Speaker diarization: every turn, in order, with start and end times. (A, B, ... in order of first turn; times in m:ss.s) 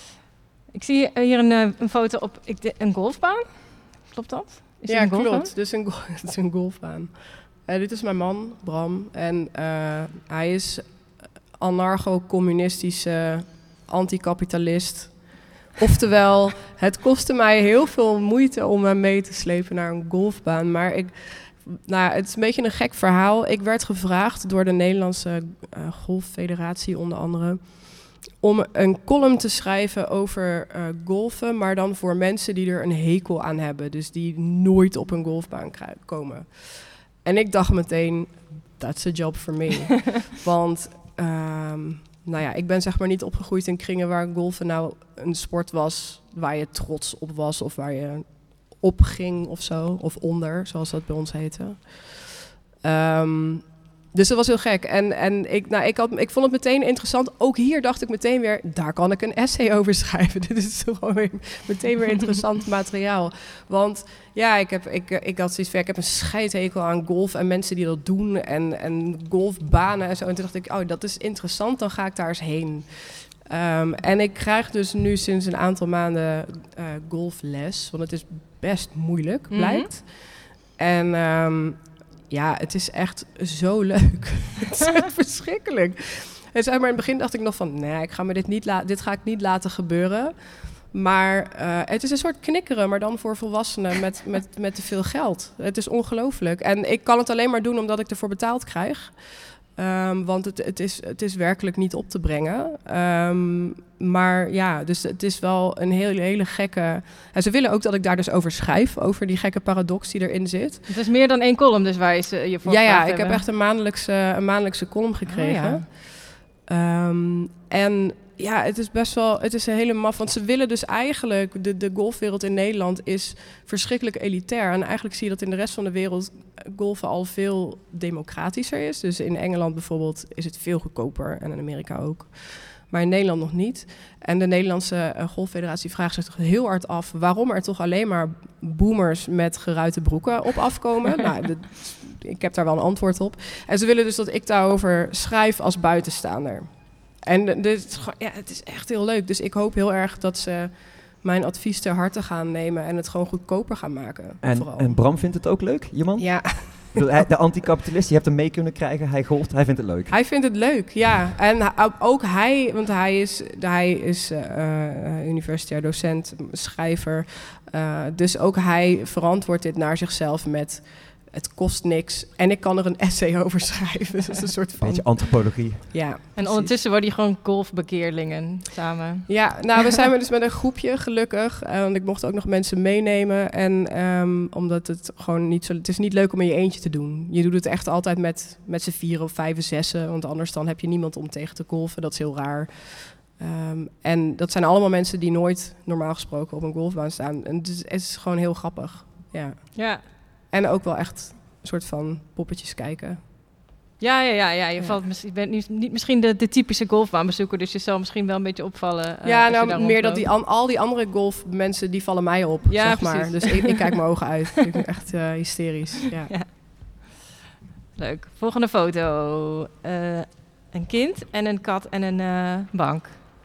0:00.7-0:05.5 A
0:04.8-1:50.9 B
1:19.5-1:19.9 A
1:50.9-1:53.4 A
1:52.6-2:35.0 B
1:55.3-1:55.8 A
2:34.4-2:40.1 C
2:36.2-2:37.0 B
2:40.1-2:56.7 B
2:54.8-2:56.0 C
2:56.4-2:59.3 A
2:59.3-3:23.2 B
3:19.8-3:20.0 A
3:24.0-3:30.3 A
3:29.2-3:36.3 B
3:32.7-3:33.8 A
3:36.3-3:37.0 A
3:38.0-3:43.2 A